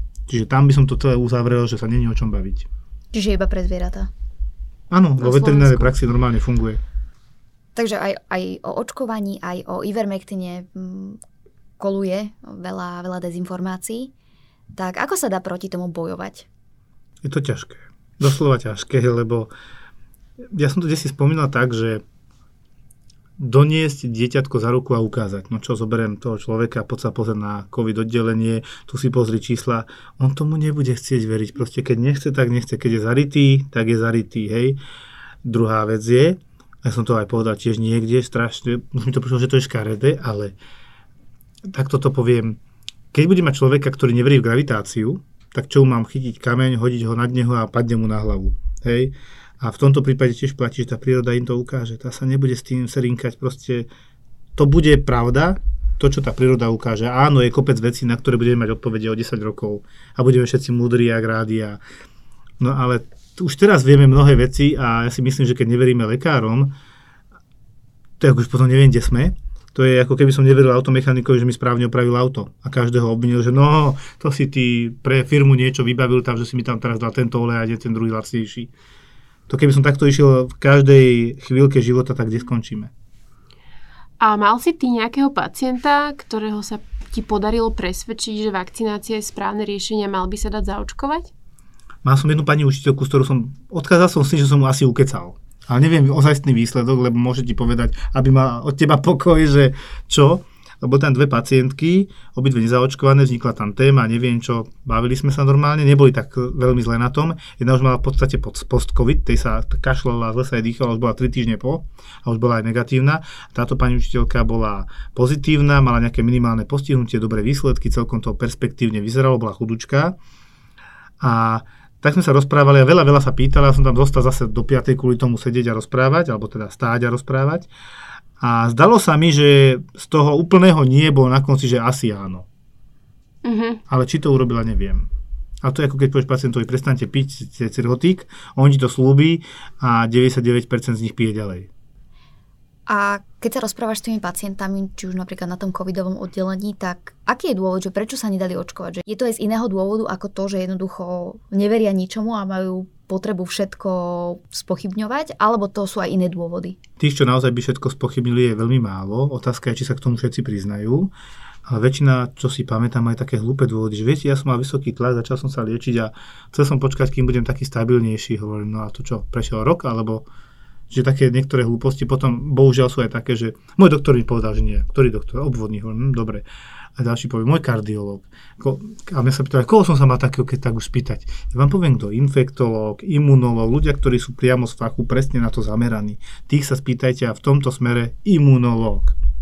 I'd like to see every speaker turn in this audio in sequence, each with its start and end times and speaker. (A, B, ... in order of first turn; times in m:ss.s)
0:00.3-0:02.7 A
0:03.1-0:04.1 B
0:04.9-0:06.8 A
0:05.2-0:05.9 C
0:07.8-0:11.2 B
0:11.8-0:14.1 B
0:14.7-0:16.5 B
0:17.2-0:19.5 A
0:20.5-0:22.0 A
0:23.4-0:34.8 A
0:35.4-0:40.6 A
0:41.7-0:42.6 A
0:43.1-0:53.9 A
0:54.6-1:01.8 A
1:02.6-1:06.7 A
1:08.2-1:18.7 A
1:19.5-1:22.9 A
1:24.2-1:31.3 C
1:32.0-2:00.2 A
2:01.2-2:07.7 A
2:08.4-2:12.5 A
2:13.4-2:13.8 C
2:13.9-2:15.1 A
2:15.6-2:21.7 A
2:22.9-2:36.8 B
2:37.0-2:41.1 A
2:41.7-2:50.3 A
2:50.9-3:09.2 A